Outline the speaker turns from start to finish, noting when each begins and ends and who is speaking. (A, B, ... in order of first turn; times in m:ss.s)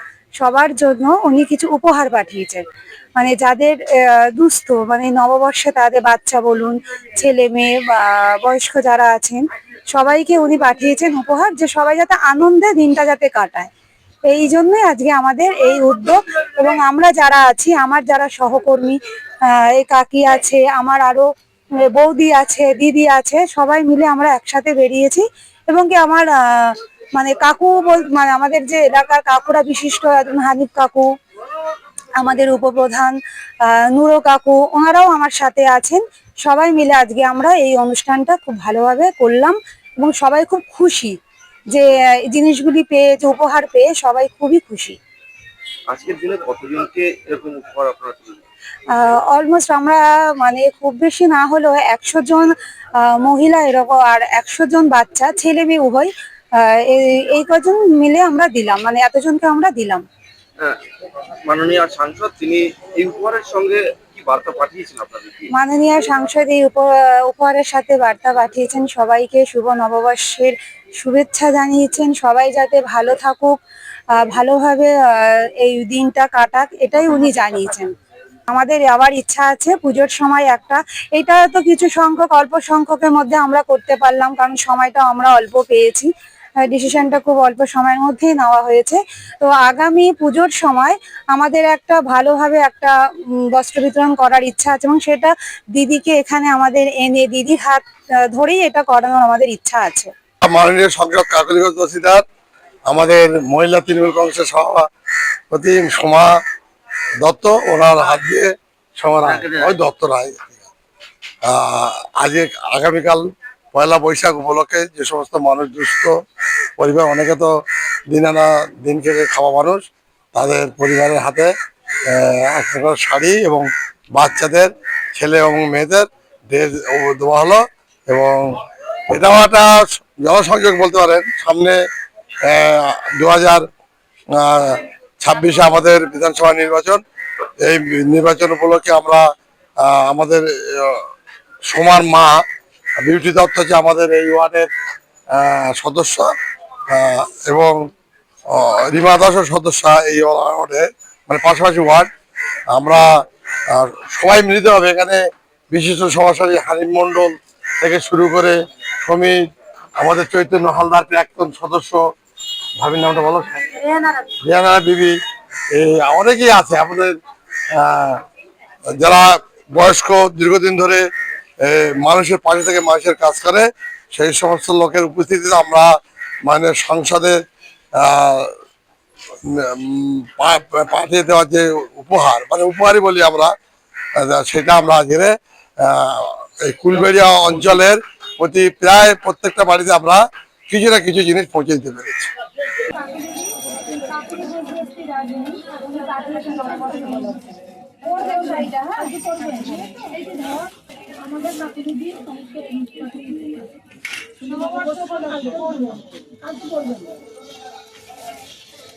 0:00.4-0:02.6 A
0:03.2-0:09.4 A
0:09.9-0:13.7 A
0:14.3-0:19.0 A
0:19.5-0:21.3 A
0:21.9-0:31.1 A
0:32.2-0:33.2 A
0:33.7-0:41.1 A
0:41.7-0:45.0 A
0:45.9-0:48.4 B
0:48.9-0:52.5 A
0:53.0-0:56.1 A
0:56.7-1:00.0 A
1:01.4-1:05.5 B
1:05.5-1:13.6 A
1:14.2-1:17.9 A
1:18.5-1:26.1 A
1:26.7-1:40.1 A
1:40.4-1:42.2 C
1:42.9-1:44.9 C
1:45.5-1:46.4 C
1:47.2-1:50.6 C
1:49.2-1:49.8 B
1:51.4-1:56.2 C
1:56.8-1:57.5 C
1:58.1-2:01.5 C
2:02.1-2:11.8 C
2:12.4-2:13.6 C
2:14.3-2:17.0 C
2:17.6-2:19.3 C
2:19.8-2:21.0 C
2:21.7-2:22.4 C
2:23.0-2:24.7 C
2:25.3-2:26.3 C
2:26.9-2:27.9 C
2:28.5-2:32.1 C
2:32.7-2:33.1 C
2:33.7-2:39.4 C
2:40.0-2:42.0 C
2:42.8-2:43.8 C
2:43.9-2:44.2 A
2:44.4-2:45.2 C
2:45.7-2:47.2 C
2:47.7-2:48.2 C
2:48.9-2:51.0 C
2:51.6-2:55.9 C
2:56.5-2:57.4 C
2:58.0-2:58.5 C
2:59.4-3:03.5 C
3:04.2-3:12.3 C
3:12.9-3:13.3 A
3:14.0-3:17.4 A
3:18.0-3:19.9 A
3:21.4-3:22.4 A
3:22.9-3:23.2 A
3:24.6-3:25.6 A